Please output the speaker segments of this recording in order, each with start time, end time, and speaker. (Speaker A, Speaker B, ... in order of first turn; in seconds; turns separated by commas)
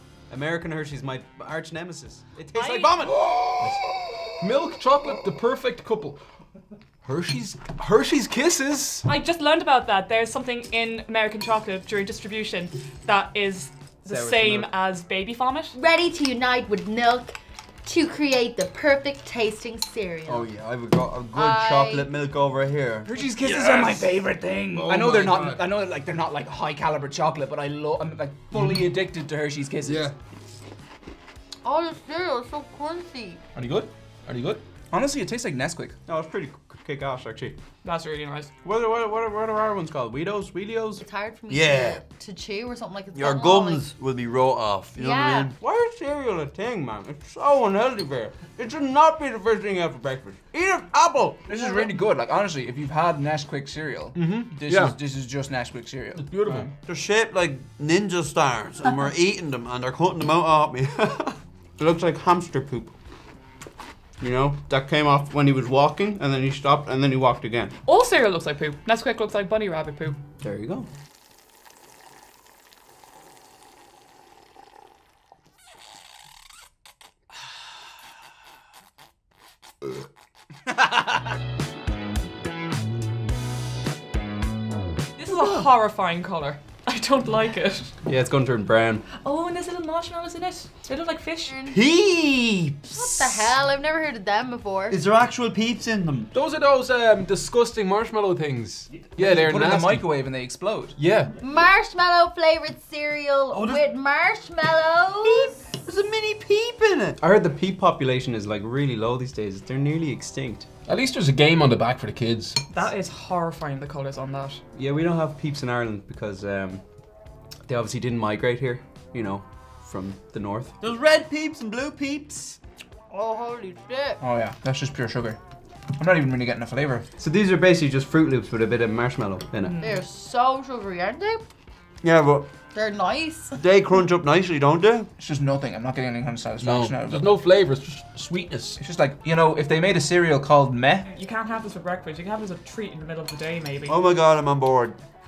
Speaker A: 0.3-3.2, Speaker B: 2.5-3.1, Speaker C: 3.3-3.8, Speaker C: 4.4-6.2, Speaker C: 7.0-9.1, Speaker B: 9.0-15.7, Speaker A: 14.1-14.7, Speaker D: 15.7-20.5, Speaker E: 20.2-23.1, Speaker D: 21.3-22.1, Speaker F: 23.1-30.1, Speaker C: 23.4-24.1, Speaker C: 24.8-25.6, Speaker D: 31.6-33.4, Speaker C: 33.5-34.6, Speaker F: 34.9-36.0, Speaker A: 36.1-37.6, Speaker B: 37.8-38.5, Speaker A: 38.6-41.0, Speaker D: 41.0-43.9, Speaker E: 41.5-42.0, Speaker E: 43.1-45.5, Speaker D: 44.9-45.5, Speaker A: 45.6-51.5, Speaker F: 51.5-56.7, Speaker D: 51.5-51.9, Speaker C: 54.1-55.0, Speaker C: 56.1-56.7, Speaker E: 56.8-61.4, Speaker A: 61.8-62.9, Speaker A: 64.2-67.7, Speaker B: 67.8-70.2, Speaker A: 70.4-70.9, Speaker B: 85.2-87.9, Speaker A: 88.0-89.0, Speaker B: 89.1-91.5, Speaker D: 91.5-91.8, Speaker E: 91.7-93.5, Speaker D: 92.9-95.0, Speaker E: 94.9-96.3, Speaker C: 96.3-100.1, Speaker F: 99.2-101.0, Speaker C: 101.0-101.3, Speaker D: 101.4-105.6, Speaker E: 103.5-103.8, Speaker E: 105.2-107.2, Speaker A: 107.2-110.7, Speaker C: 110.9-112.6, Speaker B: 112.7-114.6, Speaker A: 114.7-116.8, Speaker A: 117.7-120.8, Speaker E: 120.8-122.6, Speaker D: 123.1-124.2, Speaker F: 124.2-125.4, Speaker F: 125.9-127.0, Speaker A: 127.2-129.8, Speaker D: 129.8-131.4, Speaker E: 132.0-132.5, Speaker D: 132.7-133.6, Speaker E: 133.6-135.1, Speaker F: 135.2-137.3, Speaker C: 136.6-138.8, Speaker F: 138.8-141.1, Speaker B: 141.1-144.0, Speaker E: 143.9-145.0